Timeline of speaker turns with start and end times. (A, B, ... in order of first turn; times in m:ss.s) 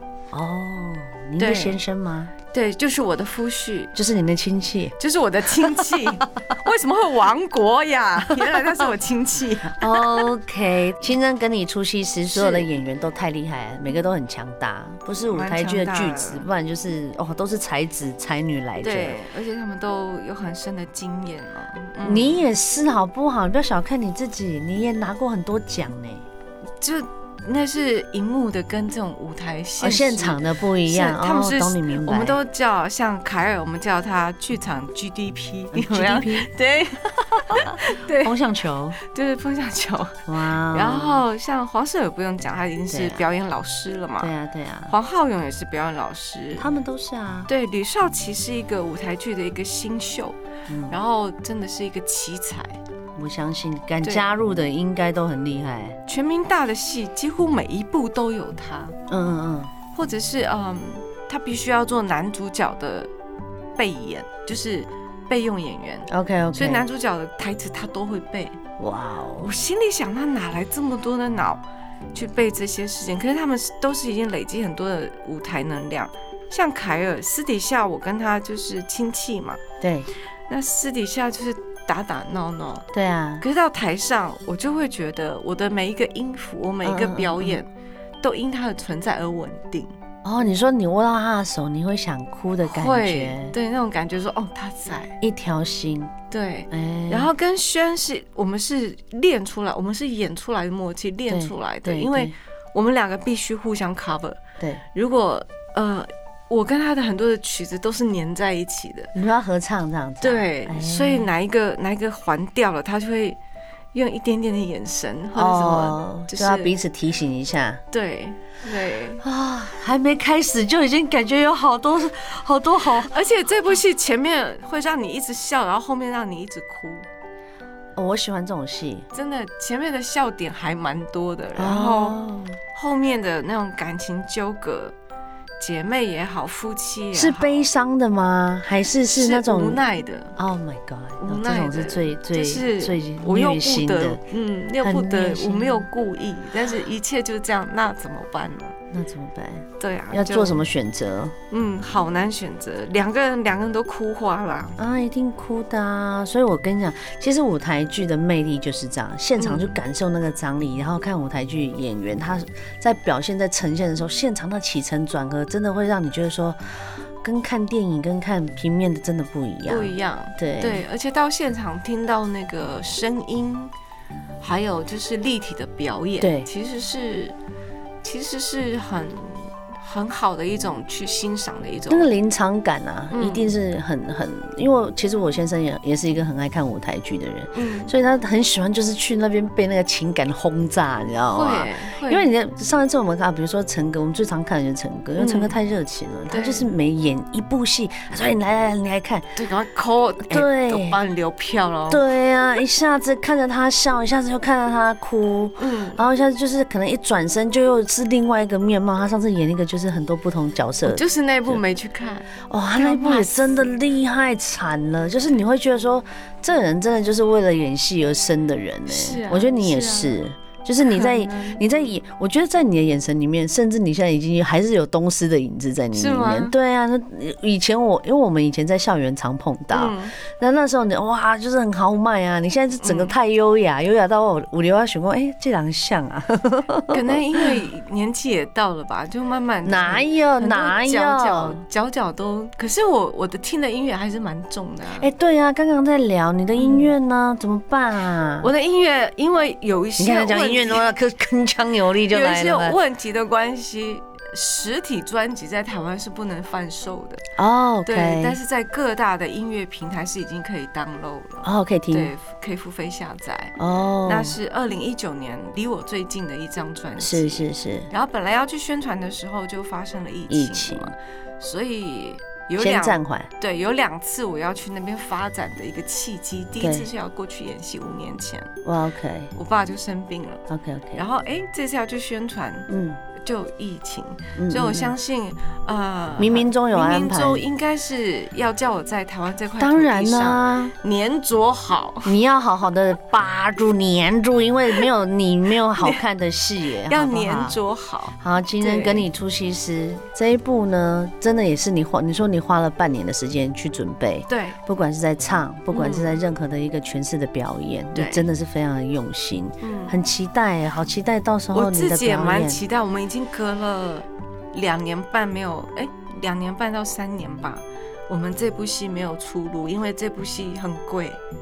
0:00.3-0:02.3 A
0:01.4-0:01.8 B
0:02.5-0:03.9 B
0:03.9-0:04.9 A
0:05.0-0:10.2 B
0:09.8-0:19.2 A
0:12.3-0:12.7 B
0:15.2-0:16.4 B
0:18.8-0:22.4 B
0:22.0-0:26.2 A
0:26.8-0:38.4 B
0:29.8-0:32.4 A
0:35.7-0:36.5 A
0:38.1-0:39.0 A
0:39.0-0:44.3 B
0:40.3-0:41.2 A
0:42.9-0:43.2 A
0:44.2-0:44.9 A
0:44.9-0:46.7 B
0:46.6-0:47.5 A
0:47.5-0:50.4 B
0:50.7-0:51.0 A
0:50.9-0:52.8 B
0:53.2-0:56.0 A
0:54.0-0:54.3 B
0:56.1-0:59.0 B
0:59.1-0:59.7 A
0:59.9-1:03.1 B
1:03.8-1:08.6 B
1:06.1-1:06.8 A
1:08.8-1:09.5 A
1:09.4-1:11.6 B
1:12.1-1:19.6 B
1:19.8-1:20.1 A
1:20.5-1:22.9 B
1:22.9-1:23.4 A
1:23.4-1:27.7 B
1:26.8-1:27.6 A
1:28.2-1:29.9 B
1:30.2-1:33.5 A
1:32.6-1:35.1 B
1:35.2-1:36.1 A
1:36.3-1:44.4 B
1:36.7-1:37.3 A
1:41.3-1:42.3 A
1:44.9-1:49.1 B
1:49.1-1:51.3 A
1:50.2-1:53.4 B
1:53.9-1:56.7 B
1:55.3-1:57.8 A
1:57.9-1:59.2 B
1:59.2-2:03.1 A
2:03.0-2:07.0 B
2:08.0-2:09.0 A
2:09.1-2:12.2 B
2:11.6-2:12.6 A
2:12.7-2:14.9 B
2:15.6-2:17.7 B
2:17.1-2:19.8 A
2:19.1-2:20.4 B
2:20.4-2:24.2 A
2:21.2-2:28.8 B
2:24.8-2:25.9 A
2:28.9-2:31.3 A
2:29.8-2:30.6 B
2:31.5-2:34.8 B
2:34.8-2:46.6 A
2:39.4-2:39.8 B
2:47.2-2:50.8 A
2:49.6-2:53.7 B
2:54.4-2:57.4 B
2:56.2-2:56.5 A
2:58.0-3:02.1 B
3:01.9-3:19.3 A
3:03.1-3:03.5 B
3:07.5-3:07.9 B
3:11.3-3:12.3 B
3:15.2-3:15.6 B
3:16.3-3:16.7 B
3:19.4-3:22.0 B
3:20.3-3:21.0 A
3:21.9-3:31.6 A
3:25.6-3:26.0 B
3:30.8-3:33.7 B
3:32.5-3:57.2 A
3:38.9-3:40.2 B
3:40.8-3:41.6 B
3:45.9-3:46.5 B
3:49.7-3:50.1 B
3:52.8-3:53.2 B
3:56.9-4:05.1 B
3:59.6-4:01.6 A
4:05.0-4:08.5 A
4:06.6-4:06.9 B
4:08.4-4:10.9 B
4:10.0-4:12.8 A
4:12.1-4:17.2 B
4:17.4-4:18.4 A
4:17.8-4:38.5 B
4:21.4-4:22.1 A
4:23.6-4:24.4 A
4:27.0-4:27.9 A
4:30.3-4:30.9 A
4:32.6-4:33.3 A
4:36.6-4:36.9 A
4:38.6-4:39.3 A
4:39.3-4:40.4 B
4:40.5-4:41.0 A
4:41.0-4:52.2 B
4:42.7-4:43.0 A
4:44.4-4:44.9 A
4:46.2-4:47.4 A
4:49.6-4:50.7 A
4:52.0-4:57.6 A
4:56.9-4:59.1 B
4:58.2-5:12.6 A
5:04.3-5:04.6 B
5:05.7-5:06.2 B
5:07.9-5:08.3 B
5:09.6-5:10.0 B
5:11.5-5:21.2 B